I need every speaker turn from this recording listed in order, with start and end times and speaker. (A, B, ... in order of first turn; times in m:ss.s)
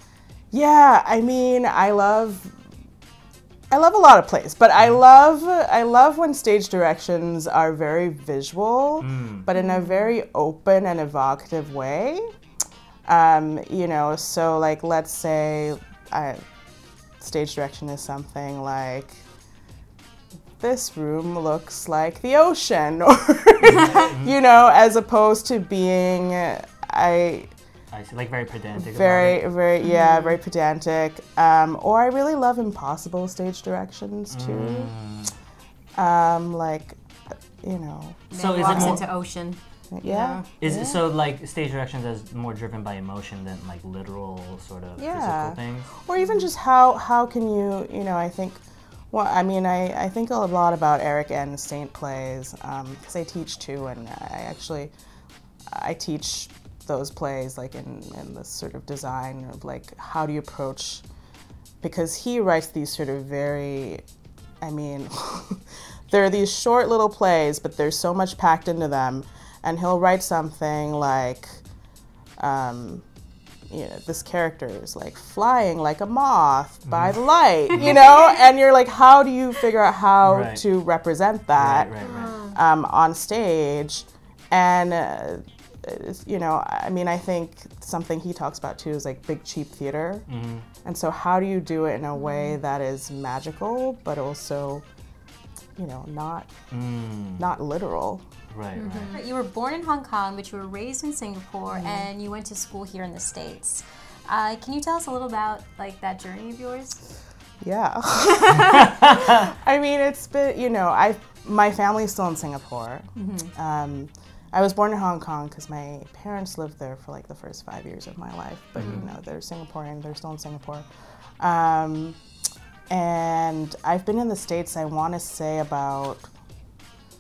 0:00.5-0:02.6 A
0:03.7-0:12.3 A
0:09.0-0:09.5 B
0:09.5-0:10.1 C
0:13.1-0:16.4 A
0:17.2-0:19.2 A
0:20.6-0:27.5 A
0:23.7-0:24.4 B
0:27.9-0:29.5 B
0:28.8-0:34.9 A
0:29.8-0:30.4 C
0:34.3-0:35.3 B
0:36.0-0:37.0 A
0:37.6-0:39.0 A
0:38.3-0:40.5 C
0:38.3-0:39.0 B
0:39.9-0:41.1 A
0:40.6-0:45.9 B
0:45.0-0:54.9 A
0:55.7-1:01.0 A
1:01.8-1:04.0 A
1:04.6-1:11.6 A
1:12.4-1:13.0 A
1:13.7-1:30.3 A
1:16.9-1:17.2 B
1:20.2-1:20.6 B
1:21.6-1:22.3 B
1:22.0-1:22.6 C
1:30.3-1:30.6 B
1:30.8-1:34.8 A
1:32.2-1:32.6 C
1:35.8-1:36.6 A
1:36.7-1:37.4 B
1:37.4-1:38.2 A
1:38.5-1:39.2 B
1:38.8-1:47.0 C
1:41.7-1:42.1 A
1:47.6-2:00.9 A
1:48.3-1:48.7 C
1:53.2-1:53.5 C
1:58.8-1:59.0 B
1:58.8-1:59.1 C
2:01.4-2:02.2 A
2:02.9-2:06.3 A